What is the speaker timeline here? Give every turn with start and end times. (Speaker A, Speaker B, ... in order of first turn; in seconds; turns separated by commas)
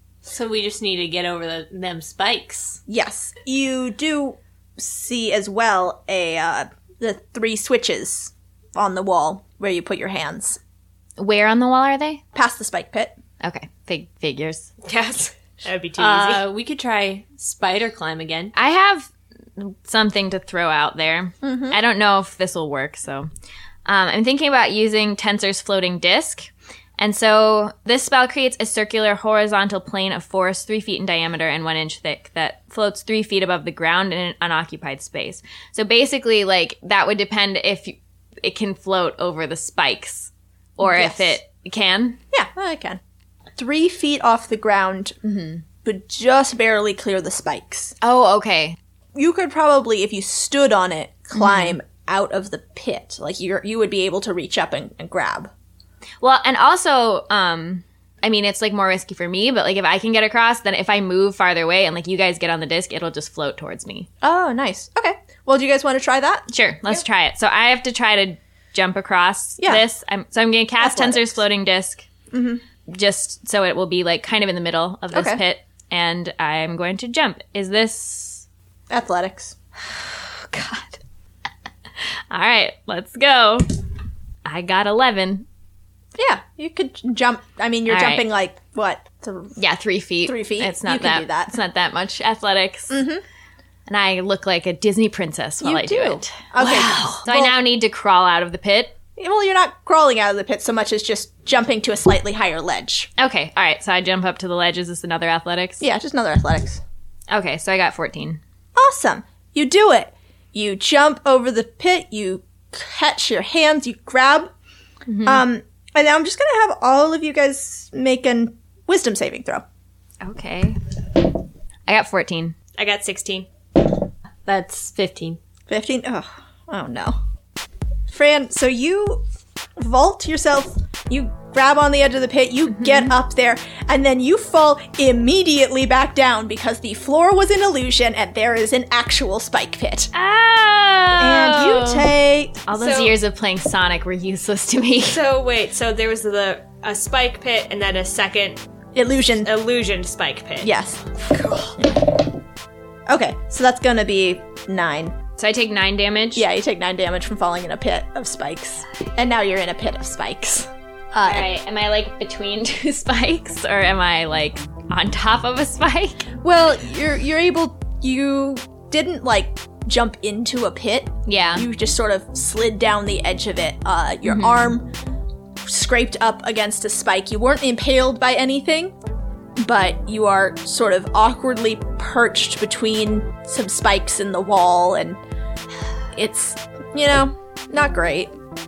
Speaker A: 0.2-2.8, Speaker B: 2.9-10.6, Speaker C: 11.2-12.2, Speaker B: 12.3-13.2, Speaker C: 13.4-14.7, Speaker D: 14.8-16.4, Speaker A: 16.0-18.5, Speaker C: 18.5-23.3, Speaker B: 21.4-21.8, Speaker C: 23.9-42.2, Speaker B: 40.8-41.4, Speaker B: 42.3-43.0, Speaker B: 43.5-45.1, Speaker C: 45.2-45.6, Speaker B: 45.8-47.9, Speaker C: 48.0-48.8, Speaker B: 49.1-55.5, Speaker C: 51.3-51.8, Speaker C: 56.2-64.1, Speaker B: 64.2-67.0, Speaker C: 66.5-72.1, Speaker B: 69.6-69.8, Speaker B: 70.8-71.3, Speaker B: 72.3-72.6, Speaker C: 72.9-78.5, Speaker B: 75.1-75.4, Speaker B: 78.9-79.5, Speaker C: 80.0-81.0, Speaker C: 82.3-83.7, Speaker C: 84.4-85.5, Speaker B: 86.2-89.6, Speaker C: 87.9-88.2, Speaker C: 89.6-93.0, Speaker B: 90.2-91.6, Speaker B: 92.9-93.2, Speaker C: 93.9-98.9, Speaker B: 95.6-97.6, Speaker B: 99.2-103.1, Speaker C: 103.2-105.8, Speaker B: 105.8-106.8, Speaker C: 107.3-108.4, Speaker B: 108.7-114.5, Speaker C: 115.1-115.4, Speaker B: 115.2-119.6, Speaker C: 120.2-120.8, Speaker C: 121.9-122.5, Speaker D: 122.8-123.5, Speaker A: 124.5-125.4, Speaker B: 125.7-127.2, Speaker B: 128.1-129.2, Speaker B: 129.8-140.1, Speaker C: 132.7-133.1, Speaker C: 140.1-142.1, Speaker B: 141.2-142.6, Speaker C: 142.7-145.2, Speaker D: 142.7-143.2, Speaker D: 145.1-148.6, Speaker B: 148.9-149.5, Speaker D: 149.3-150.7, Speaker B: 150.6-151.2, Speaker B: 153.1-155.2, Speaker C: 155.4-156.5, Speaker B: 156.3-161.5, Speaker C: 161.2-166.2, Speaker B: 166.4-174.9, Speaker C: 171.2-171.7, Speaker C: 174.2-174.7, Speaker B: 175.6-178.9, Speaker B: 179.6-185.2, Speaker B: 186.1-188.3